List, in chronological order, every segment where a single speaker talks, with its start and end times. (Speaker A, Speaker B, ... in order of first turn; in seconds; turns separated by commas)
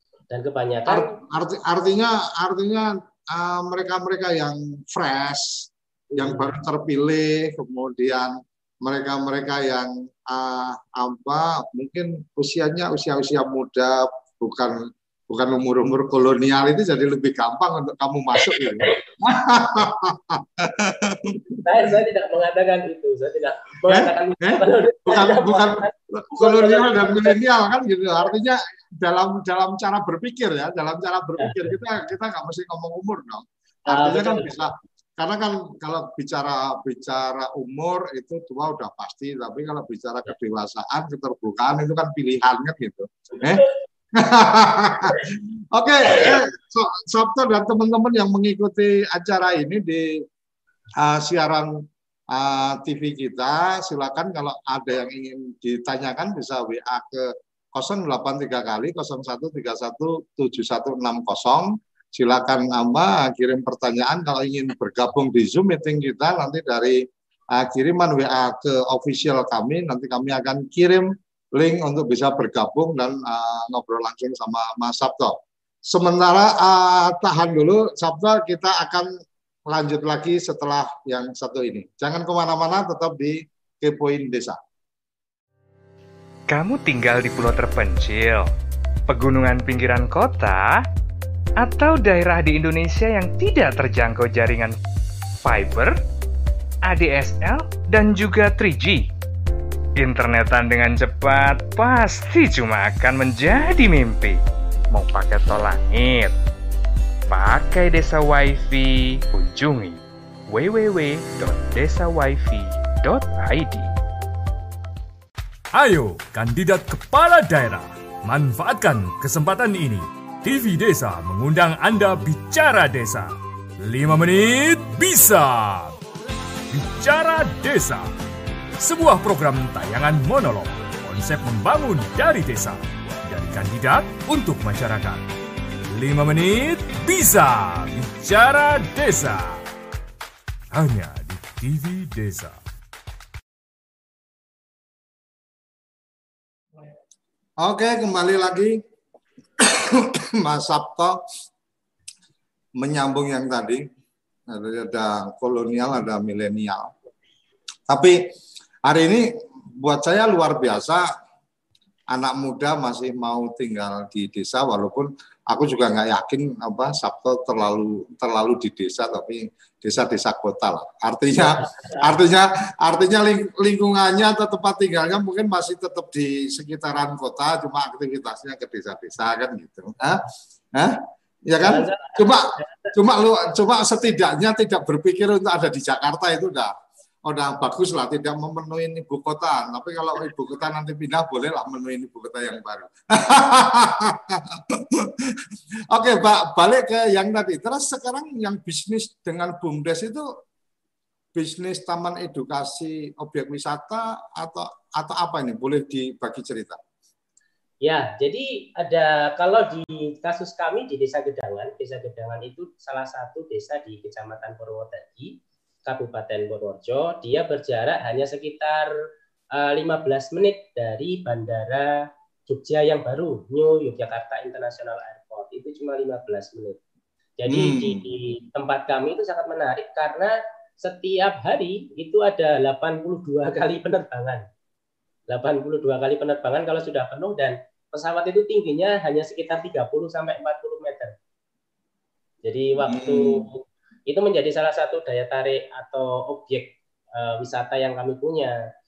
Speaker A: 0.3-1.1, Speaker B: 0.9-21.6, Speaker A: 6.1-6.6, Speaker A: 21.6-27.4, Speaker B: 23.9-50.2, Speaker A: 31.4-31.8, Speaker A: 33.9-34.6, Speaker A: 46.1-46.4, Speaker B: 51.0-51.7, Speaker B: 52.3-67.0, Speaker B: 67.5-75.4, Speaker B: 75.9-79.1, Speaker B: 79.7-84.6, Speaker C: 86.5-88.5, Speaker C: 89.1-90.8, Speaker C: 91.6-94.8, Speaker C: 95.4-96.0, Speaker C: 96.8-99.1, Speaker C: 100.0-106.4, Speaker C: 107.3-113.9, Speaker D: 115.7-123.3, Speaker D: 123.8-126.0, Speaker D: 126.7-128.1, Speaker D: 128.8-135.3, Speaker D: 135.9-139.6, Speaker D: 140.7-142.6, Speaker B: 147.6-148.8, Speaker B: 149.6-151.2, Speaker B: 152.8-153.8, Speaker B: 154.5-156.9, Speaker B: 157.9-158.1, Speaker B: 158.8-159.3, Speaker B: 159.8-161.0, Speaker B: 162.1-186.7, Speaker A: 171.6-172.0, Speaker A: 181.6-182.9, Speaker B: 187.2-195.3, Speaker B: 195.9-200.2, Speaker B: 201.3-206.8, Speaker A: 207.8-218.9, Speaker A: 219.5-226.8, Speaker A: 227.4-234.4, Speaker B: 227.5-228.0, Speaker A: 235.3-241.1, Speaker A: 242.4-248.6, Speaker B: 242.8-243.5